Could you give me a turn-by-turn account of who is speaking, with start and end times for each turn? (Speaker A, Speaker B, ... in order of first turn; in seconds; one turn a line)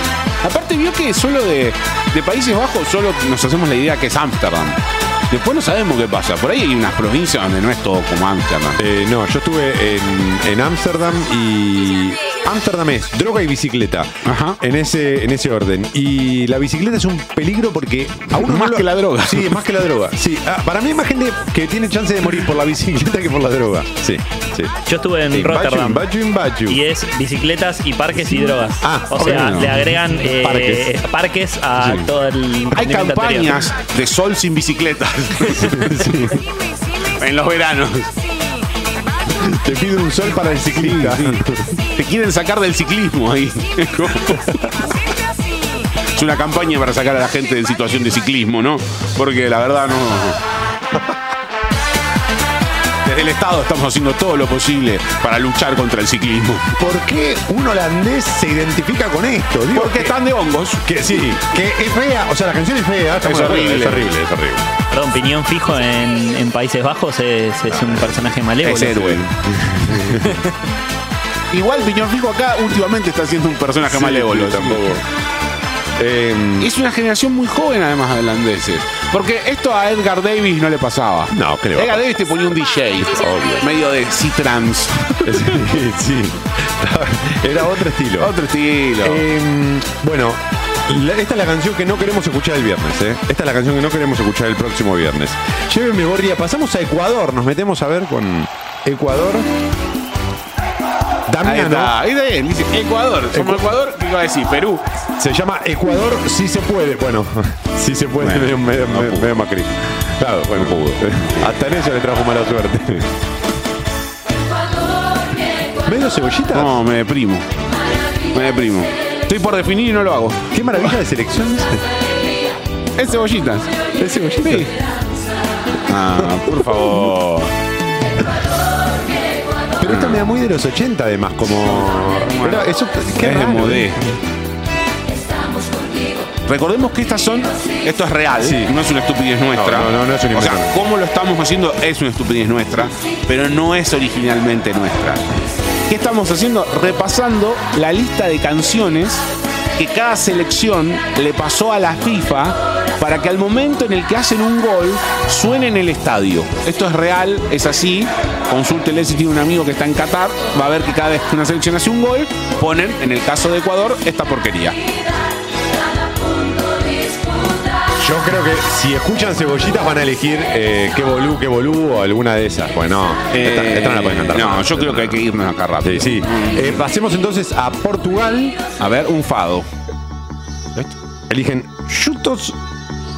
Speaker A: 0.4-8.8
Speaker B: 8.8-24.7
Speaker A: 14.2-14.6
Speaker A: 18.3-19.6
Speaker C: 24.9-26.1
Speaker B: 25.3-26.8
Speaker C: 26.7-33.7
Speaker B: 28.8-30.9
Speaker A: 29.2-29.8
Speaker A: 32.7-36.3
Speaker B: 35.5-36.4
Speaker A: 37.0-38.1
Speaker B: 39.4-41.8
Speaker A: 40.8-44.6
Speaker A: 46.1-50.4
Speaker A: 53.0-56.8
Speaker B: 56.8-60.2
Speaker A: 59.7-61.2
Speaker B: 60.8-64.7
Speaker A: 63.2-64.1
Speaker C: 64.9-69.2
Speaker B: 67.7-68.1
Speaker A: 68.6-70.4
Speaker A: 71.5-75.0
Speaker B: 73.8-75.0
Speaker B: 76.0-76.7
Speaker A: 76.6-85.6
Speaker B: 81.3-82.1
Speaker B: 83.0-83.7
Speaker B: 85.2-88.3
Speaker A: 88.2-89.2
Speaker B: 89.0-99.5
Speaker B: 101.3-101.9
Speaker A: 101.4-104.9
Speaker B: 103.3-103.7
Speaker B: 105.2-113.1
Speaker A: 108.2-109.4
Speaker A: 110.5-111.5
Speaker B: 115.8-116.8
Speaker A: 116.5-117.5
Speaker A: 118.3-120.9
Speaker B: 120.5-121.8
Speaker A: 123.0-124.8
Speaker B: 124.0-124.7
Speaker A: 125.8-127.5
Speaker B: 126.2-127.1
Speaker B: 129.8-134.1
Speaker A: 129.9-130.2
Speaker A: 131.7-134.0
Speaker A: 136.4-145.3
Speaker B: 138.4-138.7
Speaker B: 139.5-140.8
Speaker A: 145.9-149.2
Speaker A: 149.8-164.8
Speaker B: 168.0-175.2
Speaker A: 173.3-176.8
Speaker B: 175.8-178.6
Speaker A: 178.8-179.7
Speaker B: 181.3-182.6